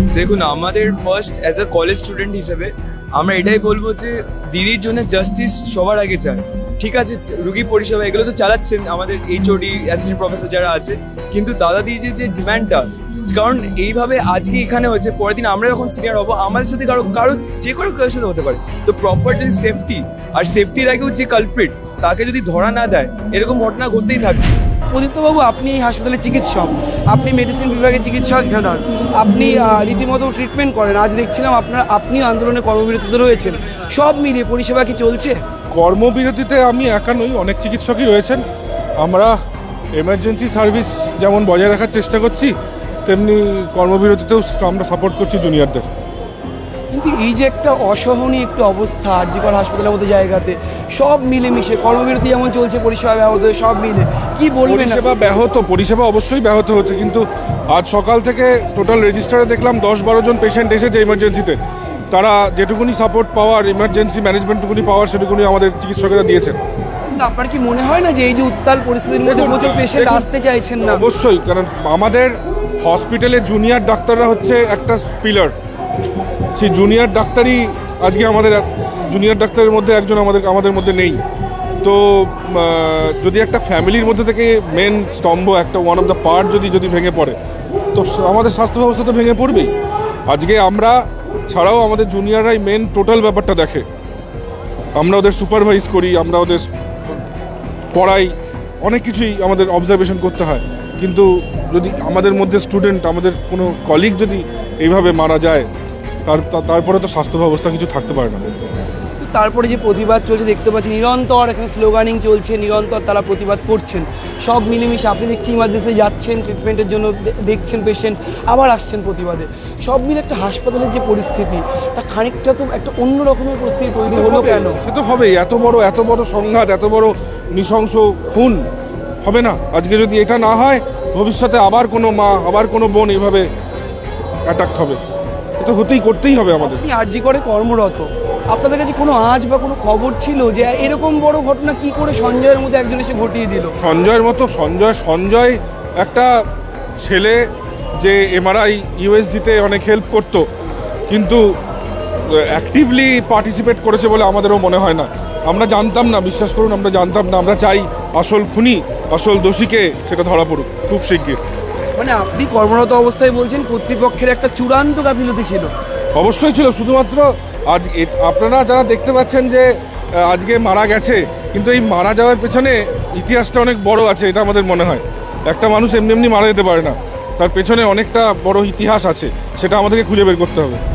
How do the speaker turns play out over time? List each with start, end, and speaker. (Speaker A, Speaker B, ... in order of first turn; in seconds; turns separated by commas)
Speaker A: 0.2-24.5, Speaker B: 24.9-35.4, Speaker C: 35.7-38.4, Speaker C: 39.0-39.3, Speaker C: 40.0-42.5, Speaker C: 43.1-45.9, Speaker B: 46.9-55.0, Speaker C: 54.6-61.6, Speaker C: 62.1-66.6, Speaker B: 67.1-71.1, Speaker C: 69.2-70.2, Speaker C: 70.9-75.5, Speaker C: 76.6-81.2, Speaker C: 81.8-87.4, Speaker C: 87.9-89.7, Speaker C: 90.3-91.0, Speaker C: 91.5-93.9, Speaker C: 95.0-96.7, Speaker C: 97.9-105.7, Speaker C: 106.3-108.5, Speaker B: 109.2-124.8, Speaker C: 124.1-128.6, Speaker C: 129.2-133.5, Speaker C: 134.4-135.0, Speaker C: 135.6-136.8, Speaker B: 136.6-143.7, Speaker C: 143.8-146.3, Speaker C: 147.0-147.4, Speaker C: 148.0-150.4, Speaker C: 151.1-151.4, Speaker C: 152.3-161.4, Speaker B: 162.0-165.7, Speaker C: 166.2-180.8